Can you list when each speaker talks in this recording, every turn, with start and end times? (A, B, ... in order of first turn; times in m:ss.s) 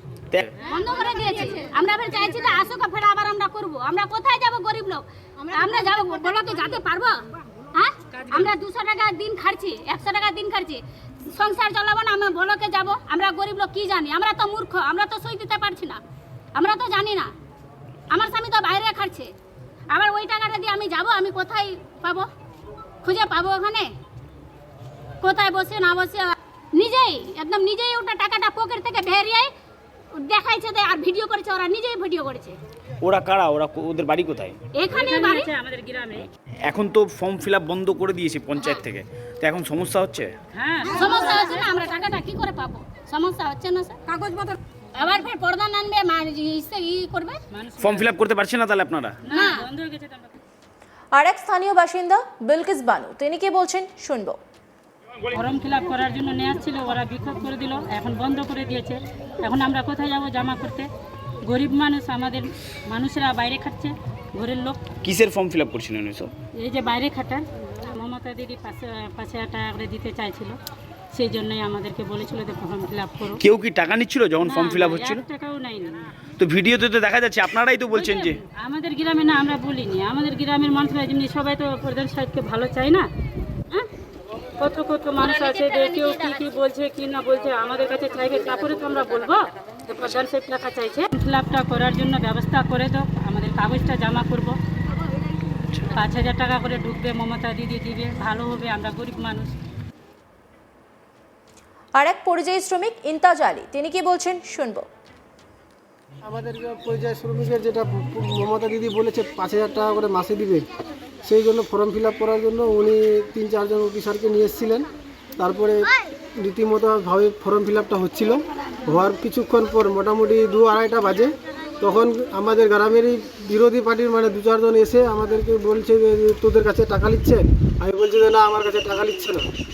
0:00.7-0:07.2 A
0:07.7-0:10.8 A
0:11.3-0:16.0 A
0:16.6-0:17.3 A
0:18.1-0:19.3 A
0:19.9-0:22.3 A
0:23.0-0:23.9 A
0:25.2-0:29.5 A
0:30.2-0:32.6 A
0:33.0-0:34.6 B
0:34.8-0:35.5 A
0:34.9-0:36.3 C
0:36.7-0:40.3 B
0:40.5-0:41.7 C
0:40.8-0:44.0 A
0:45.0-0:47.4 A
0:47.5-0:48.1 C
0:47.8-0:49.2 B
0:49.3-0:50.4 C
0:49.3-0:49.6 A
0:51.1-0:54.4 D
0:55.3-1:00.9 C
1:01.4-1:04.8 C
1:05.0-1:06.3 B
1:06.6-1:10.6 C
1:11.1-1:13.4 C
1:13.4-1:15.2 B
1:14.4-1:16.0 C
1:16.4-1:18.4 B
1:17.9-1:23.1 C
1:24.6-1:34.6 C
1:25.2-1:26.4 A
1:35.9-1:39.5 C
1:42.0-1:44.9 D
1:46.2-1:50.6 E
1:51.2-1:54.9 E
1:55.4-1:55.9 E
1:56.4-2:09.4 E